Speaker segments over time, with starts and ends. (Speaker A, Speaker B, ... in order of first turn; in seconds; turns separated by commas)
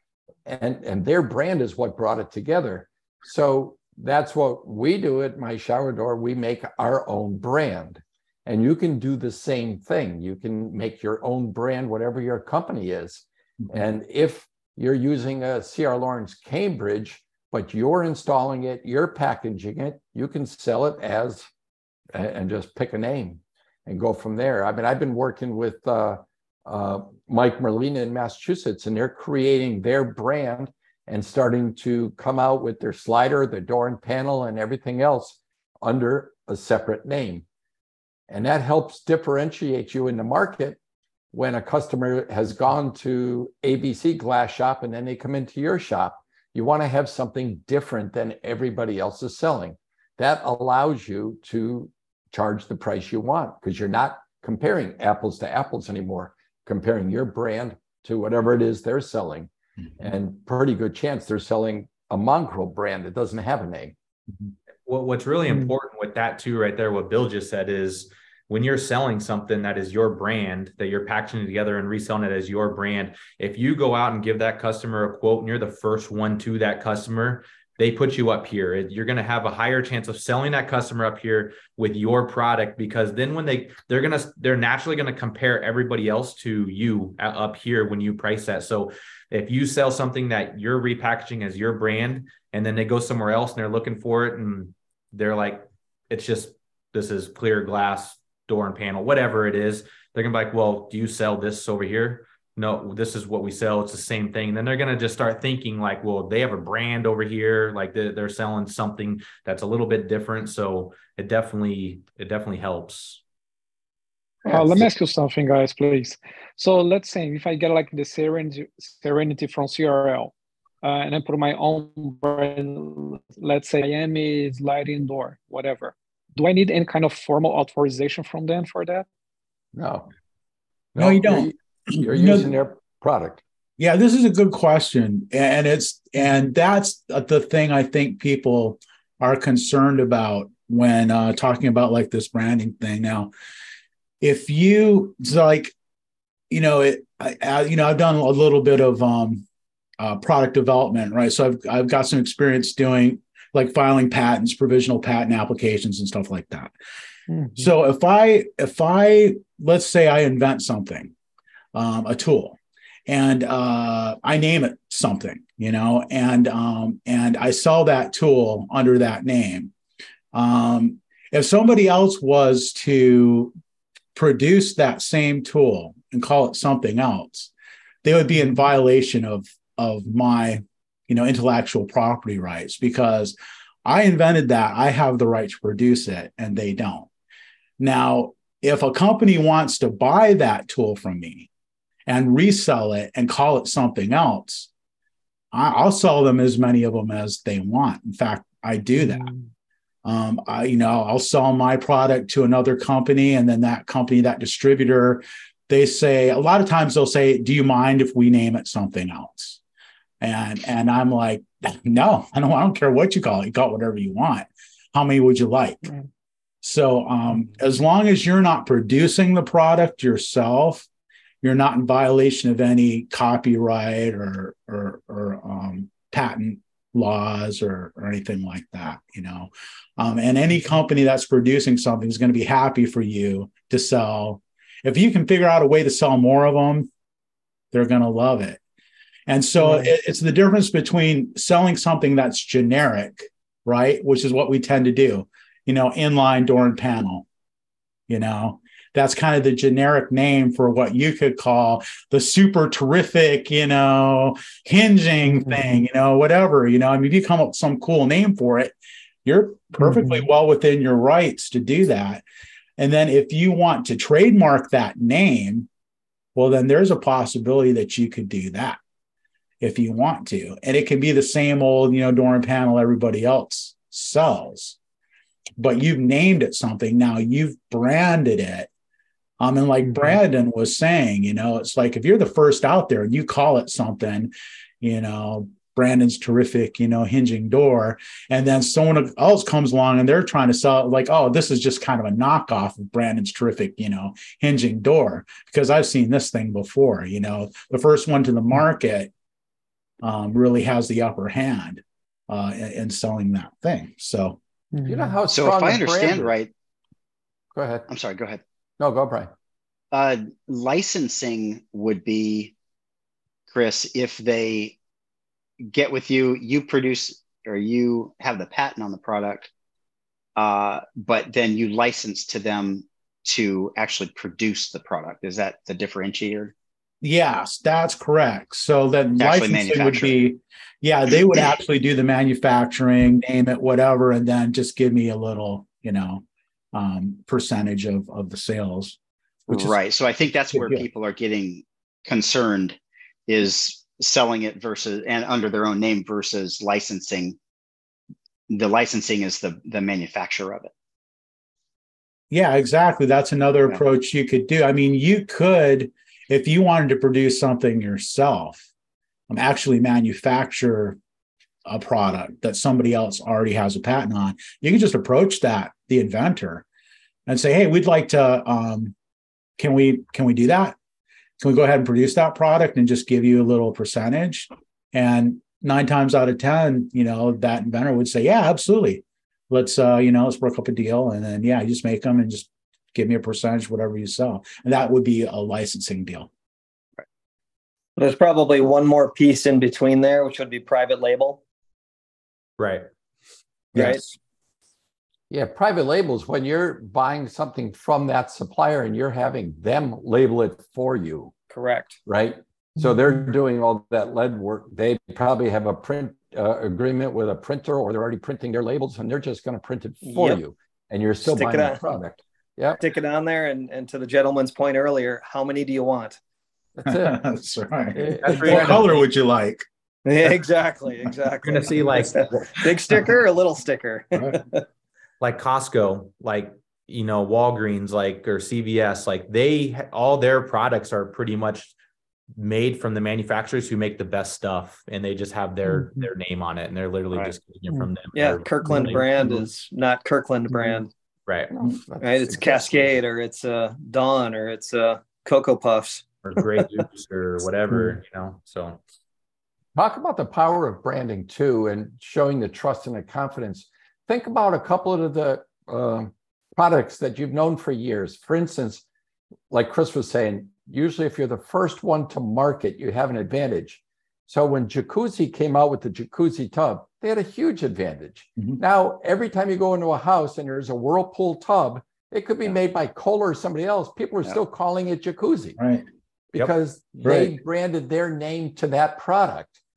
Speaker A: 0.5-21.5, Speaker A: 22.1-37.5, Speaker A: 38.3-40.8, Speaker A: 41.3-64.0, Speaker B: 64.9-113.2, Speaker C: 65.5-65.7, Speaker A: 114.5-114.9, Speaker C: 114.5-120.3, Speaker C: 120.8-129.1, Speaker A: 129.8-130.1, Speaker A: 130.9-133.4, Speaker D: 131.0-132.5, Speaker D: 133.8-143.3, Speaker D: 144.2-145.7, Speaker D: 146.5-149.4, Speaker D: 150.0-156.7, Speaker C: 157.3-157.7, Speaker D: 157.6-161.1, Speaker D: 161.7-169.7, Speaker D: 170.3-173.5, Speaker D: 174.2-177.5, Speaker D: 178.0-187.1, Speaker D: 187.8-191.5, Speaker D: 192.1-194.7, Speaker D: 195.5-199.3, Speaker C: 199.0-199.5, Speaker D: 200.1-209.6, Speaker D: 210.2-215.9, Speaker D: 216.6-220.9, Speaker D: 221.4-236.9, Speaker D: 237.7-238.6, Speaker D: 239.3-247.2, Speaker D: 248.1-262.2, Speaker C: 255.2-255.8, Speaker C: 259.8-260.3, Speaker D: 262.8-265.7, Speaker D: 266.4-268.8, Speaker D: 269.6-274.8, Speaker D: 275.6-278.7, Speaker D: 279.4-299.1, Speaker D: 300.0-304.4, Speaker C: 304.7-305.2, Speaker A: 304.9-306.4, Speaker E: 305.3-306.5, Speaker A: 307.6-307.9, Speaker E: 307.9-308.4, Speaker A: 308.8-309.3, Speaker E: 309.9-312.5, Speaker E: 313.5-314.8, Speaker E: 315.7-319.5, Speaker E: 320.4-326.5, Speaker D: 327.0-339.8, Speaker E: 329.2-330.2, Speaker E: 339.5-342.8, Speaker D: 340.5-340.9, Speaker E: 343.3-347.4, Speaker E: 348.5-350.7, Speaker D: 352.3-358.7, Speaker D: 359.3-361.0, Speaker D: 361.7-366.6, Speaker D: 367.3-368.9, Speaker D: 369.6-370.8, Speaker D: 371.4-386.3, Speaker F: 388.0-391.4, Speaker B: 392.6-392.9, Speaker F: 393.7-394.0, Speaker A: 395.3-401.3, Speaker F: 401.5-402.0, Speaker A: 402.1-412.8, Speaker F: 410.0-410.4, Speaker F: 411.3-411.8, Speaker F: 412.8-416.2, Speaker A: 416.8-417.2, Speaker D: 416.9-419.7, Speaker A: 417.9-418.9, Speaker B: 418.2-418.8, Speaker F: 420.1-424.6, Speaker B: 421.4-422.3, Speaker B: 425.2-431.8, Speaker B: 432.4-439.4, Speaker C: 435.7-436.1, Speaker F: 438.1-440.9, Speaker C: 440.5-440.8, Speaker A: 441.5-442.9, Speaker F: 442.0-446.8, Speaker B: 446.2-448.8, Speaker A: 449.8-458.8, Speaker A: 459.5-475.6, Speaker D: 475.6-475.9, Speaker A: 476.3-479.6, Speaker D: 477.0-477.3